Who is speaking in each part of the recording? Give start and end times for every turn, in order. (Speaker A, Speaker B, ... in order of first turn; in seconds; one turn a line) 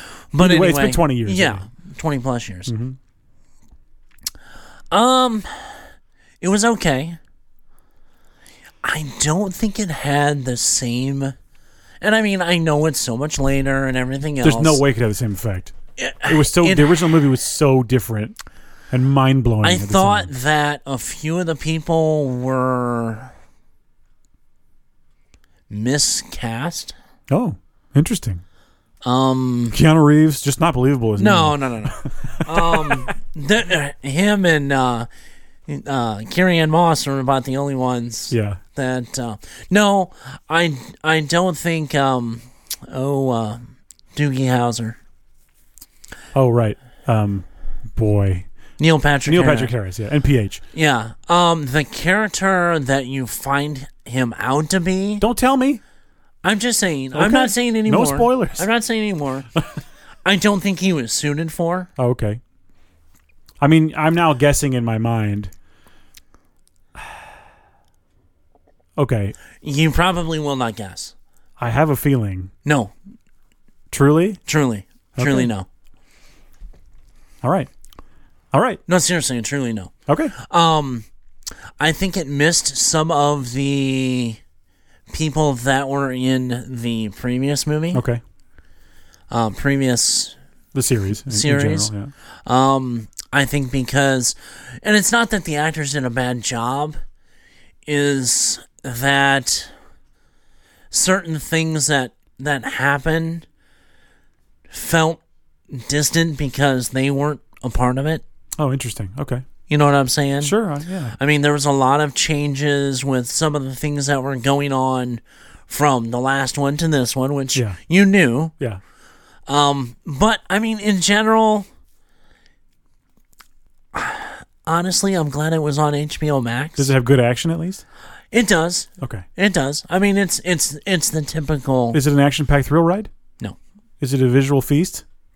Speaker A: 0.3-2.7
Speaker B: 0.4-1.6
Speaker B: 2.7-3.0
Speaker A: 4.9-5.9
Speaker A: 6.4-7.2
Speaker A: 8.8-11.3
Speaker A: 12.0-14.8
Speaker B: 14.4-15.7
Speaker A: 16.0-17.2
Speaker B: 16.3-18.4
Speaker B: 18.9-20.3
Speaker A: 19.6-23.3
Speaker A: 25.7-26.9
Speaker B: 27.3-28.4
Speaker A: 29.0-29.8
Speaker B: 29.7-33.1
Speaker A: 31.2-35.1
Speaker A: 35.7-45.0
Speaker B: 38.3-38.6
Speaker B: 46.4-48.5
Speaker A: 48.8-49.7
Speaker B: 49.3-50.6
Speaker A: 50.7-55.2
Speaker B: 55.2-55.8
Speaker A: 56.4-59.5
Speaker B: 57.1-58.7
Speaker A: 60.2-61.9
Speaker B: 62.0-62.4
Speaker B: 63.6-65.5
Speaker B: 69.0-69.3
Speaker A: 69.6-71.1
Speaker B: 71.6-72.5
Speaker A: 72.7-72.9
Speaker B: 73.9-74.4
Speaker A: 74.5-75.7
Speaker B: 75.2-75.5
Speaker B: 77.4-77.7
Speaker B: 78.5-78.8
Speaker A: 78.9-81.1
Speaker B: 80.1-80.3
Speaker A: 81.8-84.4
Speaker A: 85.1-88.0
Speaker B: 87.9-88.2
Speaker A: 89.3-90.4
Speaker B: 90.7-92.1
Speaker A: 91.3-91.9
Speaker A: 92.5-97.0
Speaker A: 97.9-99.7
Speaker A: 100.9-103.5
Speaker A: 104.7-108.2
Speaker B: 108.6-109.4
Speaker A: 109.7-110.6
Speaker B: 110.4-111.2
Speaker A: 111.1-118.5
Speaker A: 119.5-121.7
Speaker A: 123.9-126.9
Speaker B: 126.8-127.8
Speaker A: 128.3-132.0
Speaker B: 129.0-129.2
Speaker B: 131.9-133.1
Speaker B: 134.0-135.0